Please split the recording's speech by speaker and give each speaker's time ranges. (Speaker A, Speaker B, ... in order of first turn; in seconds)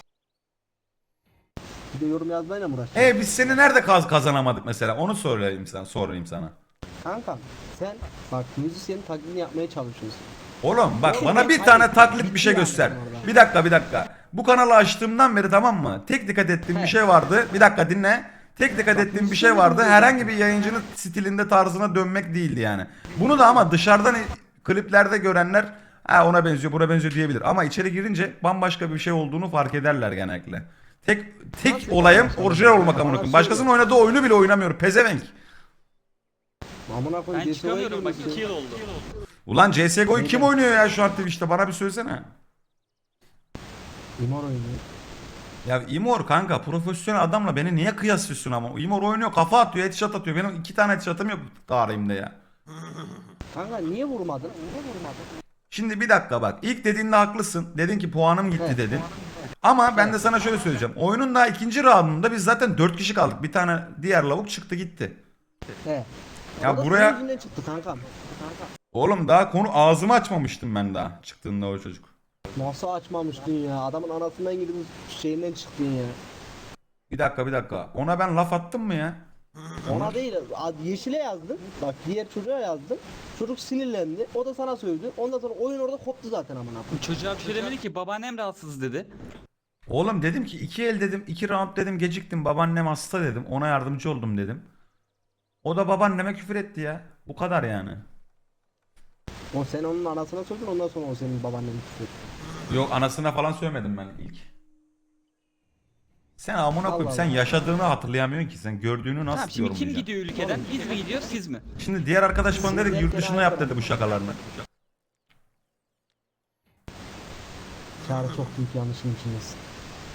Speaker A: 1.9-3.1, 7.0-10.2, 11.0-13.3, 18.9-20.3, 31.6-33.7, 36.9-38.4, 40.1-40.5, 44.2-44.8, 53.5-54.5, 59.9-60.2, 66.6-68.1, 72.5-76.2, 79.9-87.1, 99.5-102.1, 106.8-107.5, 110.4-110.7, 112.5-113.9, 118.0-119.6
Speaker B: 2.9-6.5, 10.6-35.3, 39.5-42.3, 45.6-52.4, 55.7-59.1, 59.6-65.2, 66.6-67.2, 68.9-72.1, 77.1-79.2, 79.8-80.2, 89.9-94.7, 95.6-98.0, 102.7-104.5, 106.4-110.1, 111.8-114.5
Speaker C: 37.3-38.9, 86.9-89.1, 109.3-111.6